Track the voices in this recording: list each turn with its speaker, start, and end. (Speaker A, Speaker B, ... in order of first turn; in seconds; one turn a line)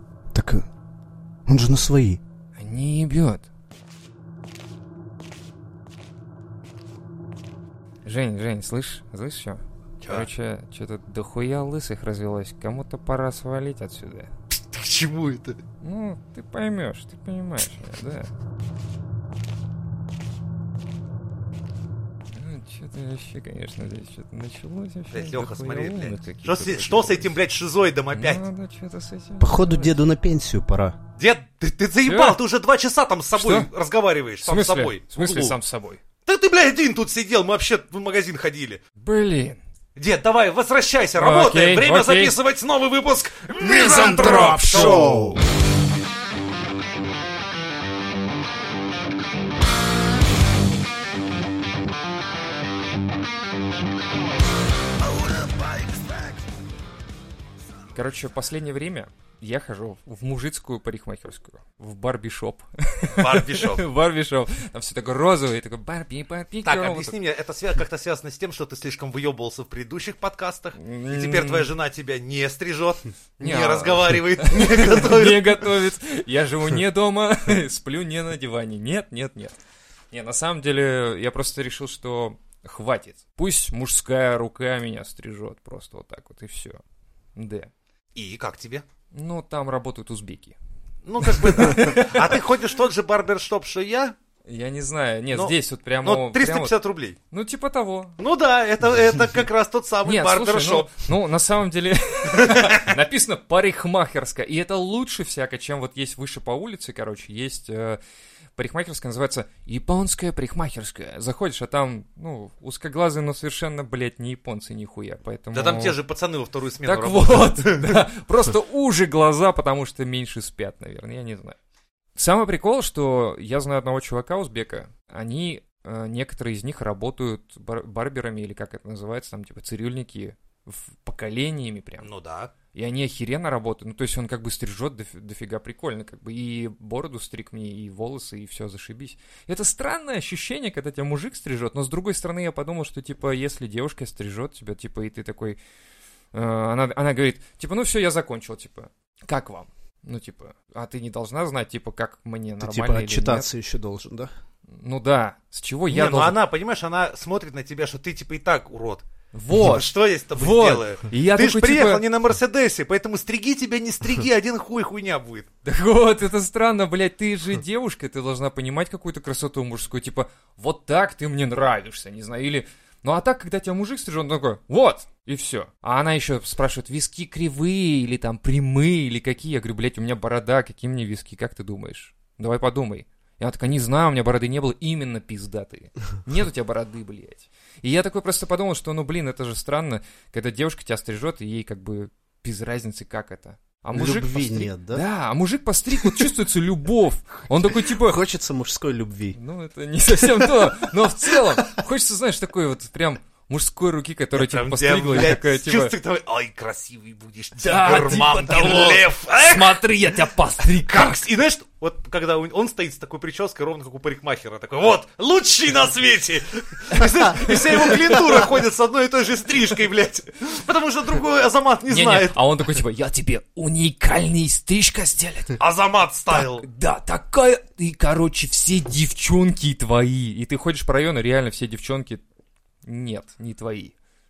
Speaker A: 0.3-0.7
Speaker A: 1.5-2.2
Speaker B: 2.6-3.5
Speaker B: 8.0-14.3
Speaker C: 10.0-10.3
Speaker C: 14.7-15.6
Speaker B: 15.8-18.3
Speaker B: 22.3-27.4
Speaker C: 25.1-28.4
Speaker B: 28.1-30.0
Speaker A: 29.4-31.0
Speaker C: 31.2-35.5
Speaker B: 32.0-32.4
Speaker B: 33.3-33.7
Speaker B: 34.4-36.0
Speaker C: 36.2-38.8
Speaker B: 39.0-39.6
Speaker C: 40.0-45.2
Speaker B: 41.2-42.3
Speaker B: 43.6-45.4
Speaker A: 43.7-45.4
Speaker C: 55.4-56.2
Speaker B: 57.9-67.2
Speaker C: 63.2-63.8
Speaker C: 66.7-75.7
Speaker B: 70.8-71.7
Speaker B: 73.4-79.5
Speaker B: 80.1-86.8
Speaker B: 87.3-87.7
Speaker C: 88.1-88.8
Speaker B: 89.1-90.5
Speaker C: 91.0-94.1
Speaker B: 91.2-92.4
Speaker B: 94.5-96.7
Speaker C: 95.3-97.2
Speaker B: 97.3-98.2
Speaker C: 98.2-100.9
Speaker B: 100.0-108.0
Speaker C: 102.3-102.9
Speaker B: 108.5-116.0
Speaker C: 115.5-118.0
Speaker B: 116.8-121.5
Speaker B: 122.2-132.1
Speaker C: 132.0-132.5
Speaker B: 132.7-145.6
Speaker B: 146.3-153.5
Speaker A: 152.6-154.3
Speaker B: 154.7-156.4
Speaker C: 155.9-159.0
Speaker B: 159.3-162.0
Speaker C: 159.6-165.5
Speaker B: 165.6-198.2
Speaker A: 193.9-195.0
Speaker A: 197.8-199.4
Speaker B: 199.3-205.9
Speaker C: 204.3-209.8
Speaker B: 207.6-211.2
Speaker C: 210.9-222.4
Speaker B: 216.9-218.5
Speaker B: 221.9-225.6
Speaker C: 225.6-226.7
Speaker B: 226.3-232.2
Speaker B: 232.8-233.9